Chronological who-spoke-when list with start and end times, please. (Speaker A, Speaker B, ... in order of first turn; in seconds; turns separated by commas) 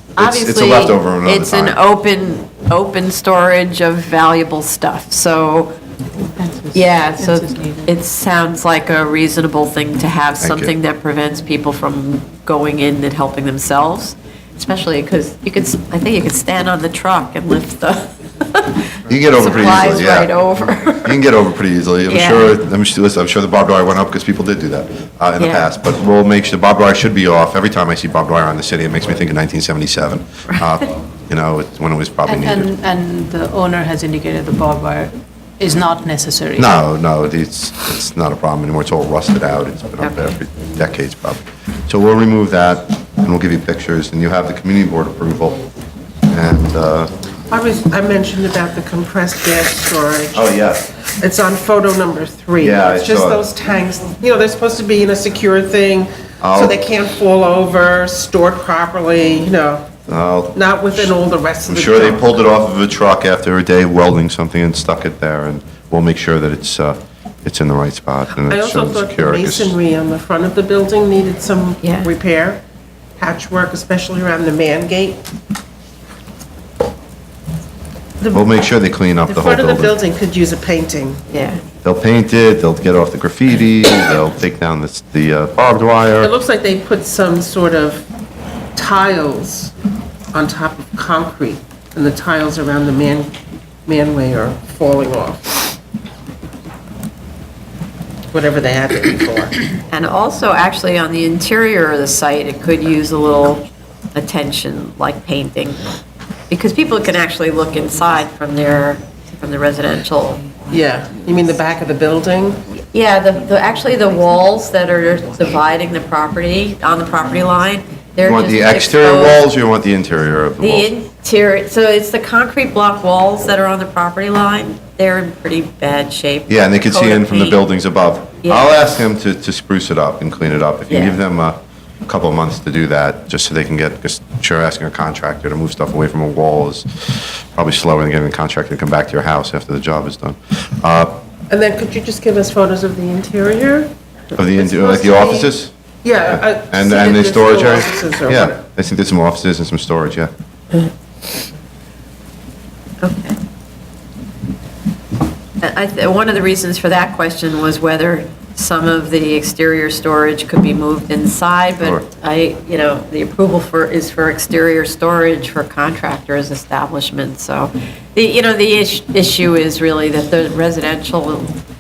Speaker A: 0.2-5.8, Speaker B: 0.2-1.8, Speaker C: 6.3-7.9, Speaker A: 6.7-21.2, Speaker B: 10.4-10.7, Speaker B: 19.1-20.3, Speaker B: 21.1-32.7, Speaker A: 22.1-22.6, Speaker A: 25.4-25.7, Speaker C: 32.3-36.7, Speaker B: 36.5-45.6, Speaker A: 40.0-40.4, Speaker B: 46.3-47.1, Speaker D: 47.5-50.5, Speaker B: 50.3-50.9, Speaker D: 51.1-59.9, Speaker B: 52.6-53.4, Speaker B: 56.4-56.8, Speaker B: 60.1-61.1, Speaker D: 60.5-62.3, Speaker B: 61.7-69.8, Speaker D: 68.4-72.6, Speaker A: 71.8-72.1, Speaker D: 73.2-75.2, Speaker D: 78.2-78.5, Speaker B: 78.3-80.0, Speaker D: 79.3-81.2, Speaker A: 81.3-81.6, Speaker B: 81.8-86.3, Speaker D: 86.2-88.1, Speaker D: 88.8-89.7, Speaker D: 90.3-93.3, Speaker D: 93.9-95.5, Speaker D: 98.3-99.6, Speaker A: 99.9-105.9, Speaker A: 106.5-110.5, Speaker D: 110.7-112.6, Speaker A: 112.9-119.4, Speaker B: 118.2-120.9, Speaker A: 120.6-127.6, Speaker B: 126.5-141.2, Speaker A: 130.9-131.2, Speaker D: 141.5-143.9, Speaker B: 144.3-145.7, Speaker D: 144.5-145.5, Speaker D: 146.0-148.6, Speaker B: 146.3-150.3, Speaker A: 153.0-153.4, Speaker A: 155.6-171.6